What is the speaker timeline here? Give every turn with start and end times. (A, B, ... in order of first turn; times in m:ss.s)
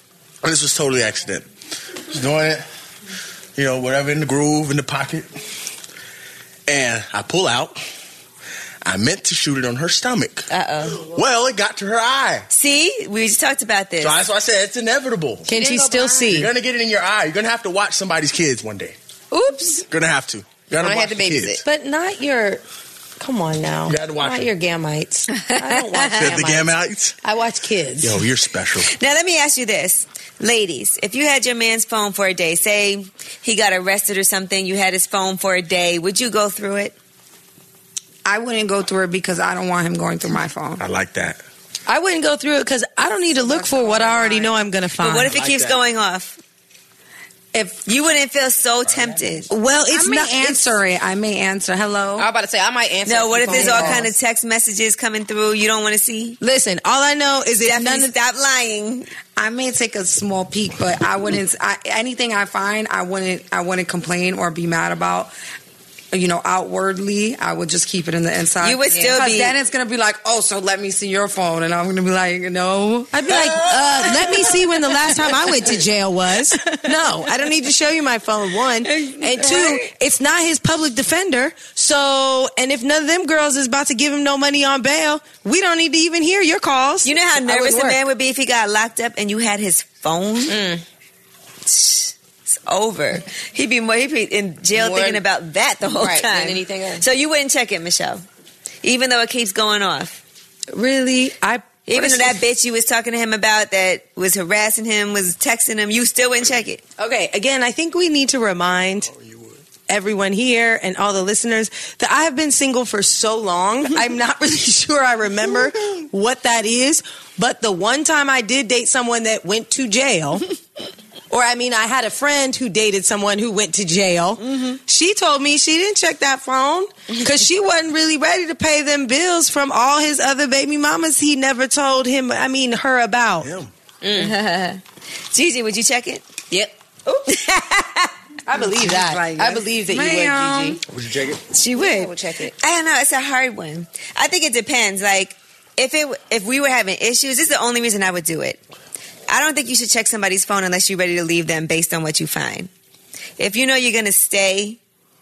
0:00.4-0:01.5 A
0:02.1-0:02.7 A
0:03.6-0:05.3 A
0:06.7-0:07.8 A
0:08.8-0:12.5 A
0:10.5-0:11.1 B
0:12.5-0:14.2 B
0:14.0-0:15.5 A
0:15.5-0:16.5 C
0:15.5-0:16.2 D
0:16.2-0:19.0 A
0:19.3-0:19.9 C
0:19.9-0:21.6 A
0:20.8-0:21.6 D
0:21.6-0:22.6 C
0:23.2-0:28.2 C
0:23.9-0:24.5 A
0:26.0-0:27.2 A
0:28.0-0:28.9 A
0:28.9-0:36.9 B
0:38.2-0:40.8 E
0:40.8-0:41.4 A
0:41.9-0:45.4 C
0:43.3-0:44.7 E
0:45.0-0:46.4 B
0:45.3-0:45.8 A
0:47.8-0:49.5 B
0:49.5-0:50.8 C
0:49.9-0:52.3 E
0:52.2-0:54.1 D
0:53.1-0:56.4 B
0:53.5-0:54.1 C
0:56.4-0:58.1 C
0:57.6-0:59.1 B
0:59.4-1:05.3 E
1:06.1-1:13.6 E
1:08.6-1:09.6 B
1:13.1-1:28.0 C
1:19.2-1:19.9 B
1:27.0-1:30.6 B
1:30.5-1:30.8 D
1:31.7-1:38.2 B
1:34.7-1:35.2 D
1:35.8-1:37.0 D
1:38.8-1:40.2 B
1:40.7-1:42.4 C
1:41.9-1:46.8 B
1:47.0-1:49.1 C
1:49.9-2:00.5 C
2:01.3-2:13.5 C
2:13.4-2:13.7 A
2:14.0-2:14.4 D
2:14.2-2:14.8 B
2:15.3-2:16.2 B
2:17.1-2:17.4 C
2:18.5-2:20.8 C
2:18.6-2:20.8 E
2:20.9-2:21.4 A
2:21.5-2:28.6 B
2:21.8-2:22.5 D
2:29.3-2:32.7 B
2:33.4-2:34.8 B